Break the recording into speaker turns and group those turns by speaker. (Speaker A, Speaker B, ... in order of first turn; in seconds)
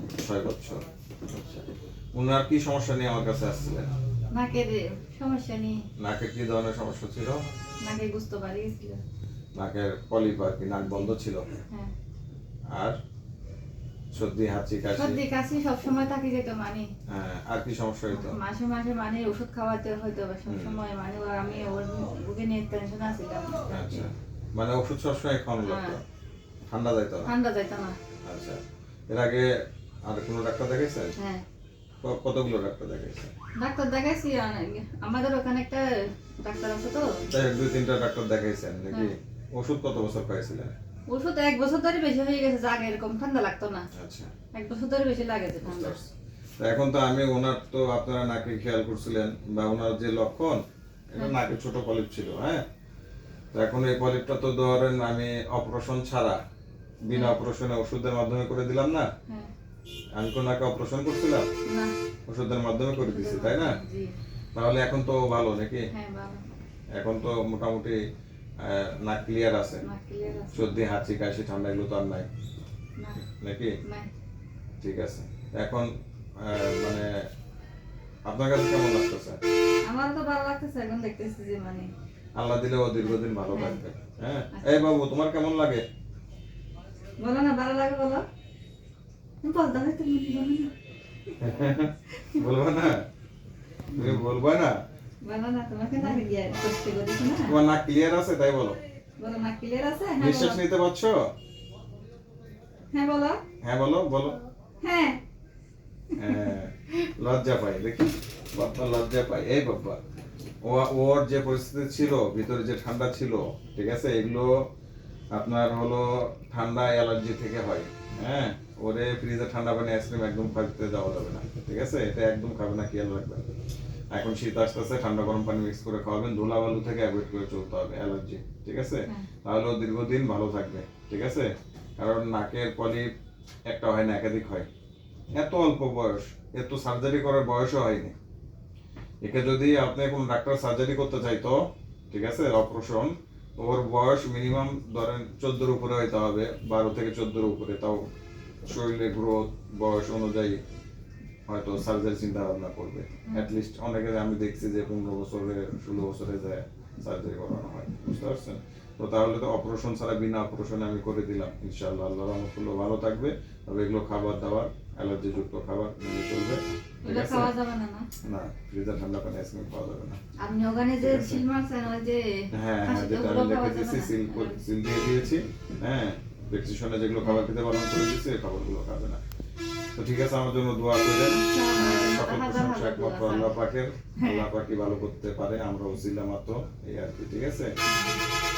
Speaker A: 0.2-3.9, 6.0-7.4, 9.6-11.5, 14.1-15.2, 17.1-18.4, 20.5-20.8, 23.7-26.0, 26.7-27.3, 28.2-29.5, 30.1-31.1, 32.0-33.3, 37.3-40.7, 43.9-44.3, 45.6-50.6, 51.1-52.6, 53.5-56.4, 57.0-59.1, 60.2-61.5, 62.3-63.8, 64.5-65.9, 67.0-68.0, 68.6-69.8, 70.5-72.3, 73.2-73.8, 74.8-77.1, 78.2-79.4, 82.3-85.8, 91.4-93.0, 93.9-94.7, 97.4-98.8, 100.2-101.2, 103.6-104.4, 106.2-110.0, 110.6-114.5, 115.3-123.5, 124.1-133.1, 133.7-134.7, 135.3-138.1, 139.2-141.6, 142.1-148.0, 148.7-150.6, 151.5-167.5, 168.2-170.2, 171.0-171.4, 172.5-179.2, 179.9-187.7
Speaker B: 4.3-5.8, 7.8-9.0, 10.8-11.1, 15.0-16.9, 18.1-24.0, 25.6-26.0, 27.2-28.0, 31.1-31.4, 33.6-37.2, 41.1-43.9, 44.5-46.0, 57.1-57.4, 61.7-61.9, 63.0-64.1, 65.9-66.4, 69.8-70.8, 79.8-81.9, 83.0-83.8, 84.5-84.9, 87.2-88.2, 89.4-90.7, 92.2-92.4, 95.2-97.6, 99.2-100.6, 102.9-103.4, 104.8-105.2, 106.1-106.5, 167.0-168.1, 170.4-172.3, 172.8-174.6, 181.3-183.5, 184.2-184.5, 187.8-188.2